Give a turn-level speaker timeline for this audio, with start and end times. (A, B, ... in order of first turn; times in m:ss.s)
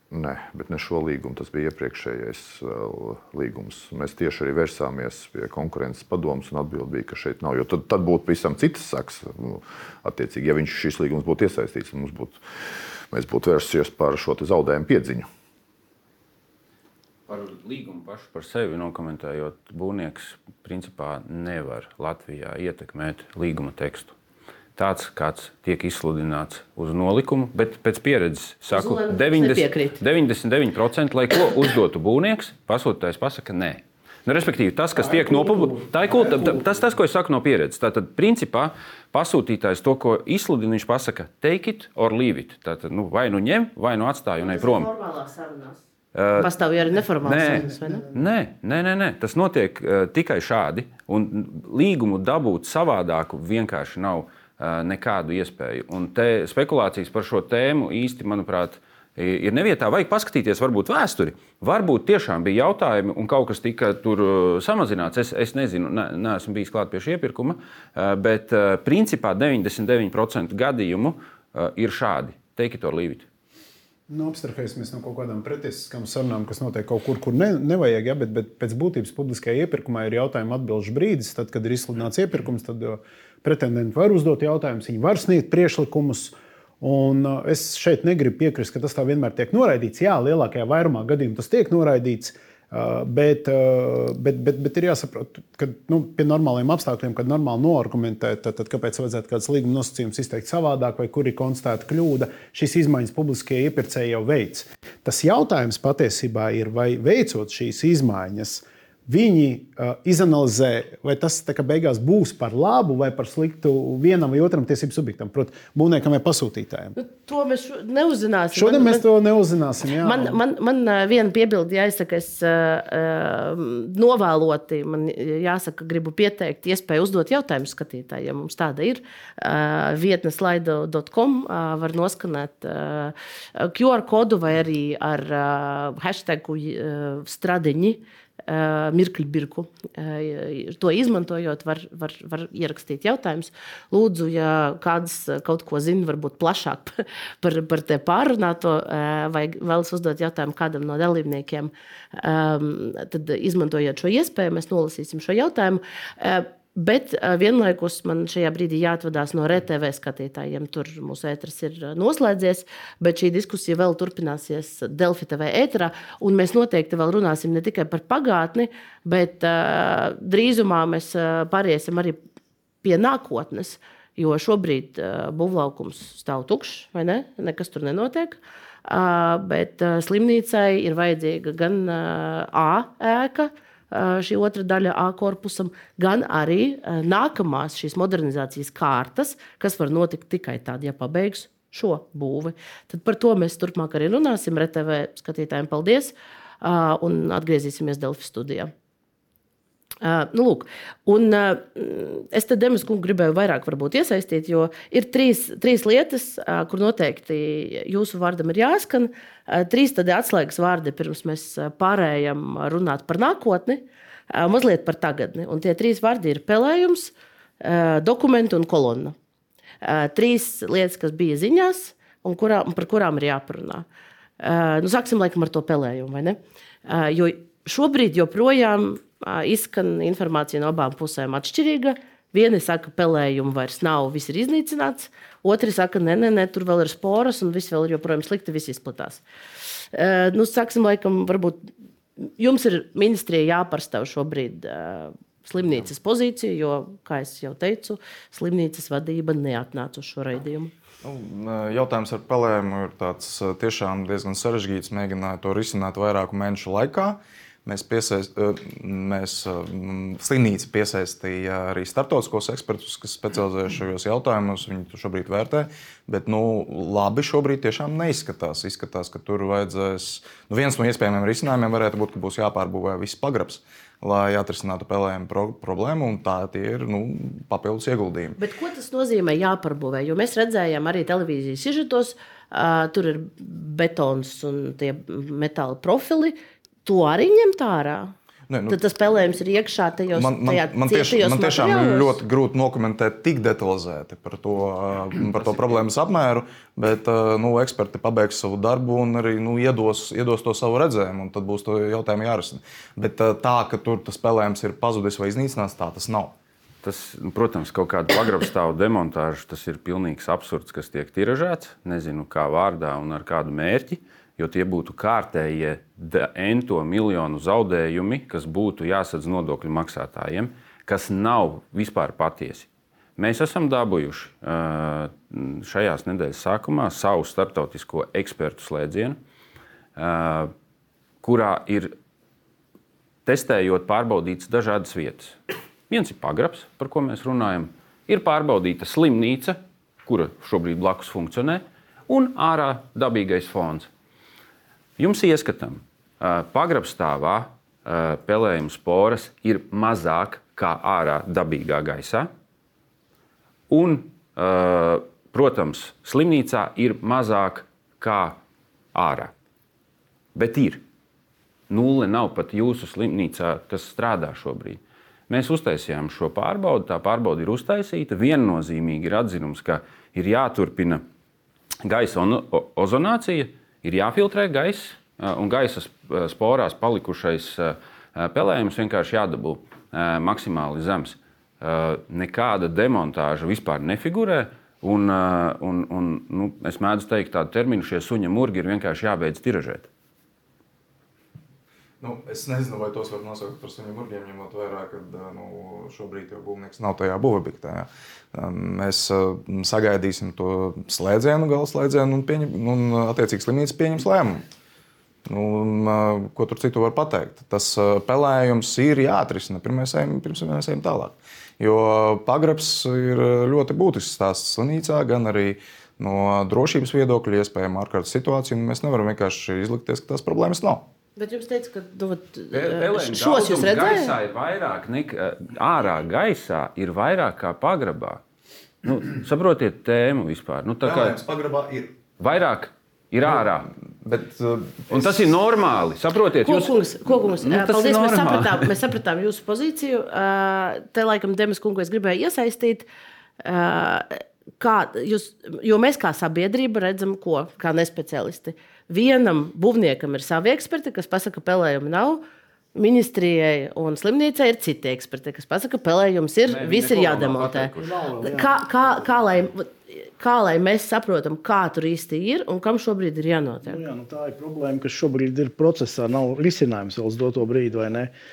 0:00.1-0:12.4 A
0:13.1-0:15.3 A
0:17.3-0:24.2 B
0:24.8-0:44.9 B
0:28.7-0:30.0 C
0:35.0-0:36.6 D
0:44.4-0:45.8 C
0:46.2-0:46.5 B
0:46.4-0:48.0 C
0:47.2-1:13.3 B
0:47.5-0:48.0 D
1:14.1-1:57.0 D
1:57.0-1:59.1 C
1:58.5-2:00.4 D
2:00.0-2:52.2 C
2:52.8-3:18.7 C
3:20.0-3:39.2 C
3:39.8-3:43.9 C
3:44.4-3:59.2 C
3:59.9-4:01.7 C
4:02.2-4:10.7 C
4:11.0-4:38.4 E
4:38.4-4:48.1 C
4:48.5-4:48.8 E
4:48.7-4:52.2 C
4:50.1-5:06.4 E
5:06.8-5:29.2 B
5:30.0-5:30.5 B
5:31.2-5:31.9 B
5:33.2-5:35.4 B
5:35.9-5:43.9 B
5:45.0-5:52.3 B
5:53.7-5:58.4 B
5:58.9-5:59.3 B
6:00.4-6:00.8 B
6:01.7-6:11.0 B
6:11.8-6:29.9 B
6:32.0-6:44.4 E
6:45.3-7:00.9 E
7:01.2-7:04.2 C
7:02.5-7:08.2 B
7:08.8-7:11.2 B
7:10.8-7:12.0 E
7:12.2-7:13.7 B
7:13.2-7:15.4 E
7:14.9-7:18.7 B
7:16.4-7:22.9 C
7:23.4-7:32.2 C
7:32.8-7:43.8 C
7:36.5-7:37.9 B
7:37.8-7:39.1 F
7:43.6-7:48.1 F